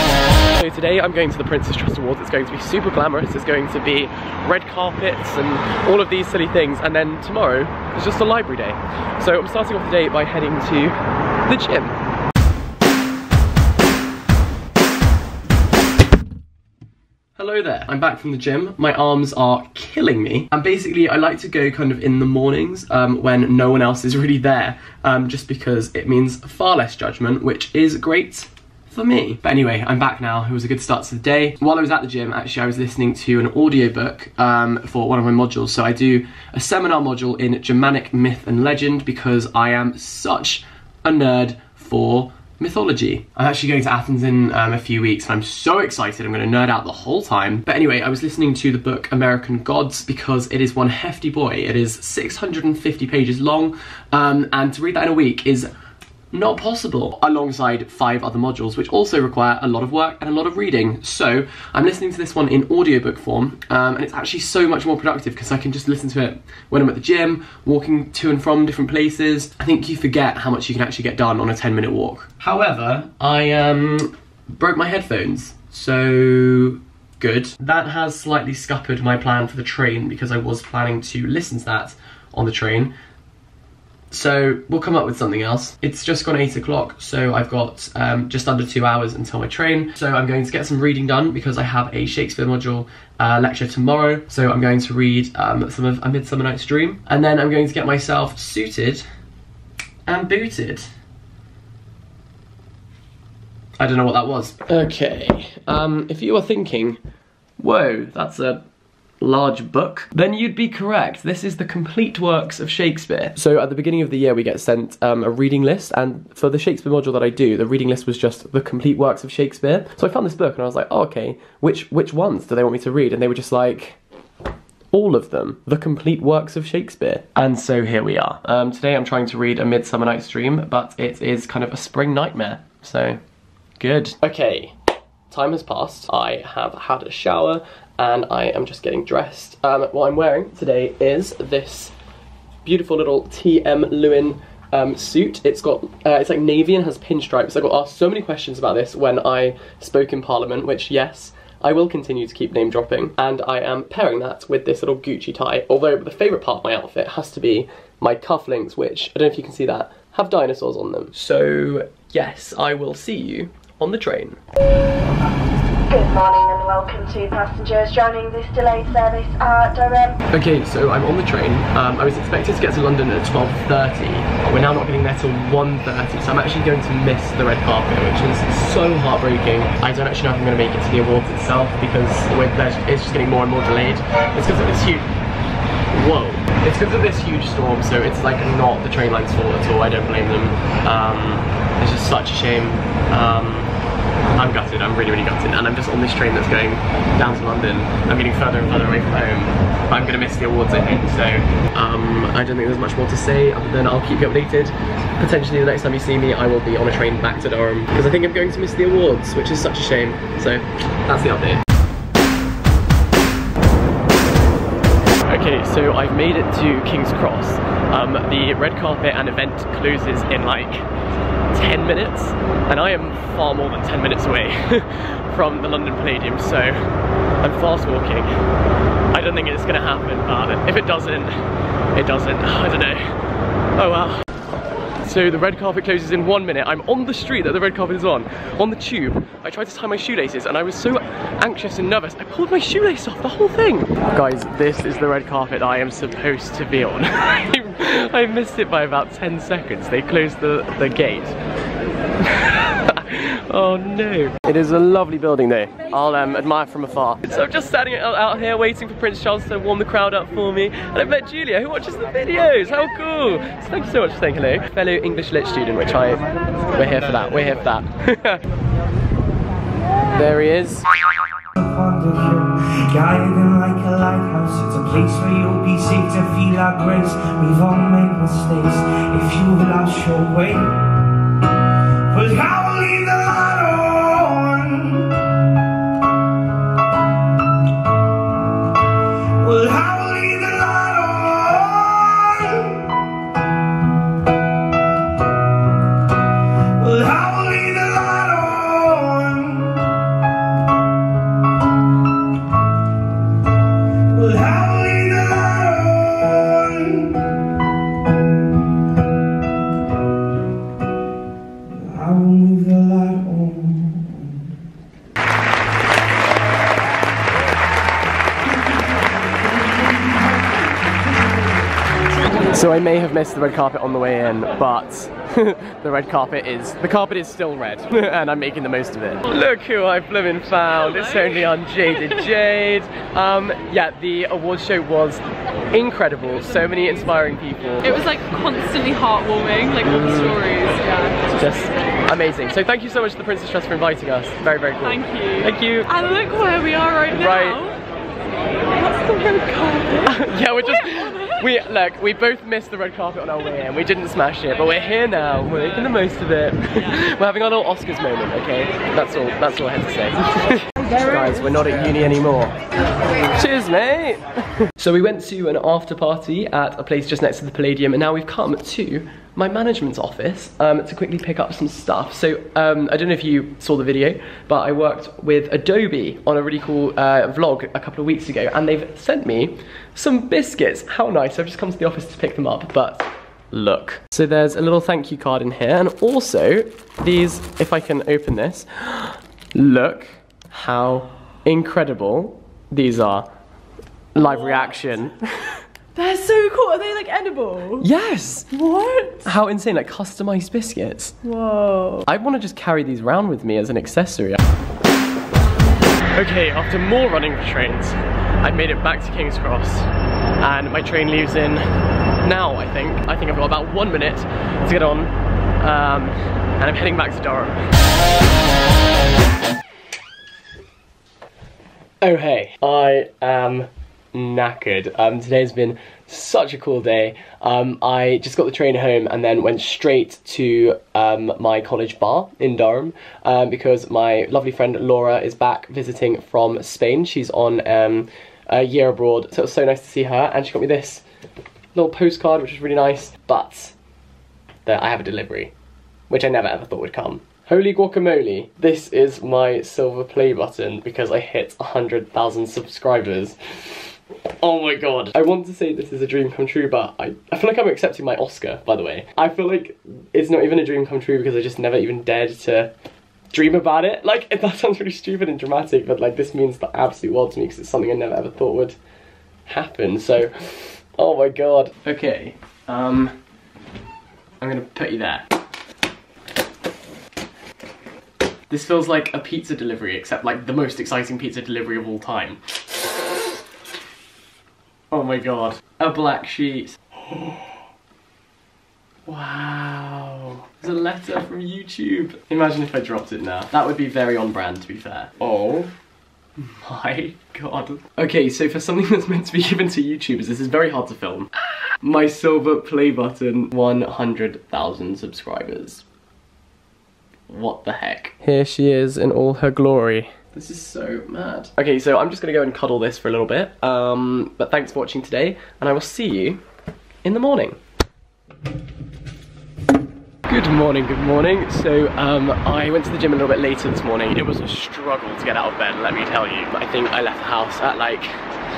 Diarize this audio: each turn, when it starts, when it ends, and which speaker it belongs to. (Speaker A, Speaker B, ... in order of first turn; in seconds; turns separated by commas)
Speaker A: 0.5-12.0, Speaker A: 17.4-55.7, Speaker A: 56.3-82.9, Speaker A: 84.1-99.0, Speaker A: 100.1-100.9, Speaker A: 103.8-107.0, Speaker A: 107.6-108.6, Speaker A: 109.2-124.0, Speaker A: 124.9-133.2, Speaker A: 133.8-134.7, Speaker A: 135.3-141.9, Speaker A: 142.6-164.4, Speaker B: 165.9-170.2, Speaker A: 170.3-185.1, Speaker A: 185.9-193.7, Speaker A: 194.3-211.6, Speaker A: 215.2-220.9, Speaker A: 221.5-228.3, Speaker A: 229.1-231.3, Speaker A: 231.9-233.1, Speaker A: 233.7-234.3, Speaker A: 235.0-251.3, Speaker A: 252.2-268.4, Speaker A: 270.1-270.9, Speaker C: 271.6-281.0, Speaker C: 282.1-285.3, Speaker C: 289.4-293.0, Speaker C: 296.8-300.0, Speaker C: 304.1-307.3, Speaker C: 311.7-314.4, Speaker A: 322.5-338.0, Speaker D: 337.9-341.7, Speaker A: 339.8-340.4, Speaker A: 341.3-345.9, Speaker D: 344.8-347.8, Speaker A: 347.1-347.6, Speaker D: 348.7-350.2, Speaker A: 350.0-362.6, Speaker D: 350.8-351.2, Speaker A: 363.2-393.3, Speaker A: 394.1-395.6, Speaker D: 394.2-394.7, Speaker D: 395.9-397.9, Speaker A: 397.8-398.5, Speaker D: 398.5-399.2, Speaker A: 399.2-401.1, Speaker D: 401.2-402.0, Speaker A: 402.0-404.4, Speaker A: 406.1-411.7, Speaker A: 412.2-417.7, Speaker A: 422.0-441.0, Speaker A: 441.7-443.7, Speaker A: 444.6-445.5, Speaker A: 446.1-462.7, Speaker A: 463.3-468.8, Speaker A: 469.5-473.2, Speaker A: 474.4-475.3, Speaker A: 478.5-483.1, Speaker A: 484.9-487.6, Speaker A: 489.1-495.7, Speaker A: 496.4-505.8, Speaker A: 507.3-516.4, Speaker A: 517.0-517.6, Speaker A: 520.3-528.2